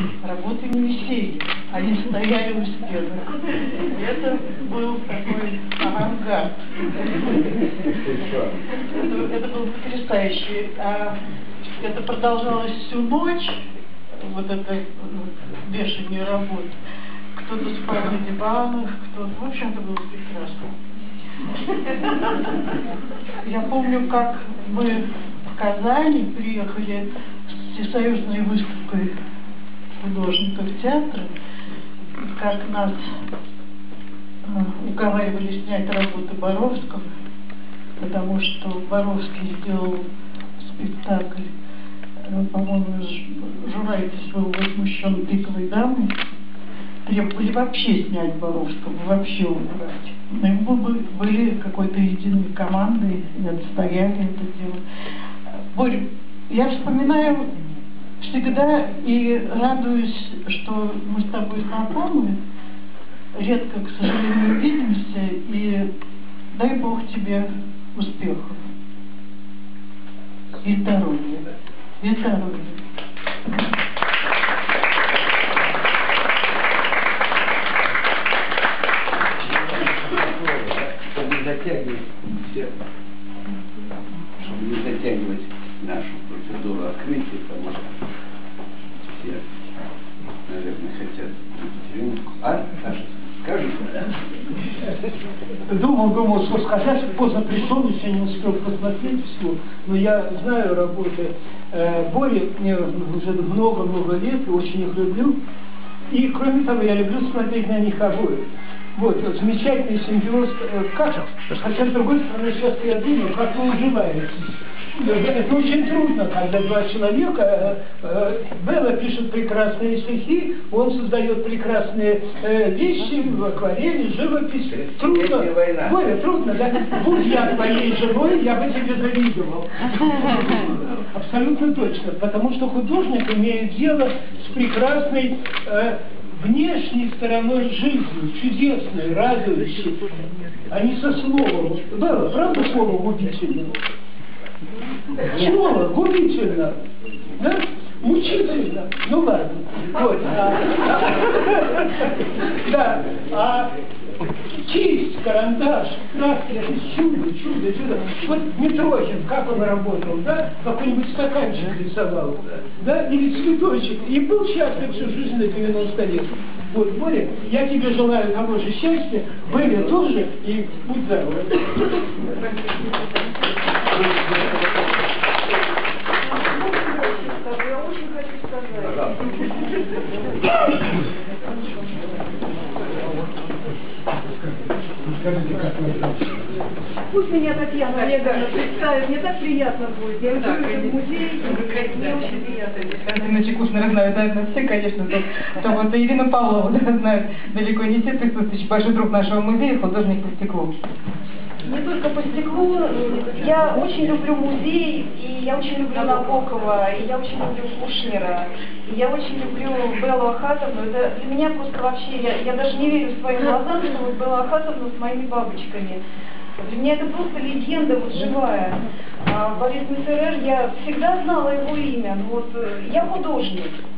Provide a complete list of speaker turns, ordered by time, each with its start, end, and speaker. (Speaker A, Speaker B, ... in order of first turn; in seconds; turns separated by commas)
Speaker A: 0.2-7.6, Speaker B: 8.1-8.5, Speaker A: 8.8-13.6, Speaker A: 14.2-16.7, Speaker A: 17.3-20.8, Speaker A: 21.9-22.4, Speaker A: 23.4-25.0, Speaker A: 25.5-29.1, Speaker A: 30.0-31.3, Speaker A: 32.2-33.0, Speaker A: 34.4-37.1, Speaker A: 38.0-40.0, Speaker A: 40.6-41.5, Speaker A: 42.2-46.1, Speaker A: 47.0-54.8, Speaker A: 55.7-57.5, Speaker A: 58.2-62.4, Speaker A: 63.3-65.9, Speaker A: 66.5-68.6, Speaker A: 70.6-71.5, Speaker A: 72.0-72.8, Speaker B: 79.4-82.7, Speaker B: 84.4-88.0, Speaker B: 89.1-89.5, Speaker B: 90.5-94.1, Speaker C: 95.7-105.4, Speaker C: 106.1-108.4, Speaker C: 108.9-140.1, Speaker B: 124.7-126.1, Speaker C: 140.7-143.8, Speaker C: 145.2-146.8, Speaker C: 147.3-153.8, Speaker C: 154.5-172.2, Speaker B: 173.9-174.6, Speaker D: 176.2-179.2, Speaker B: 178.8-179.2, Speaker B: 185.1-186.2, Speaker D: 187.1-192.9, Speaker E: 188.1-188.5, Speaker E: 190.6-190.9, Speaker E: 192.9-200.7, Speaker D: 201.6-216.0, Speaker D: 216.6-223.8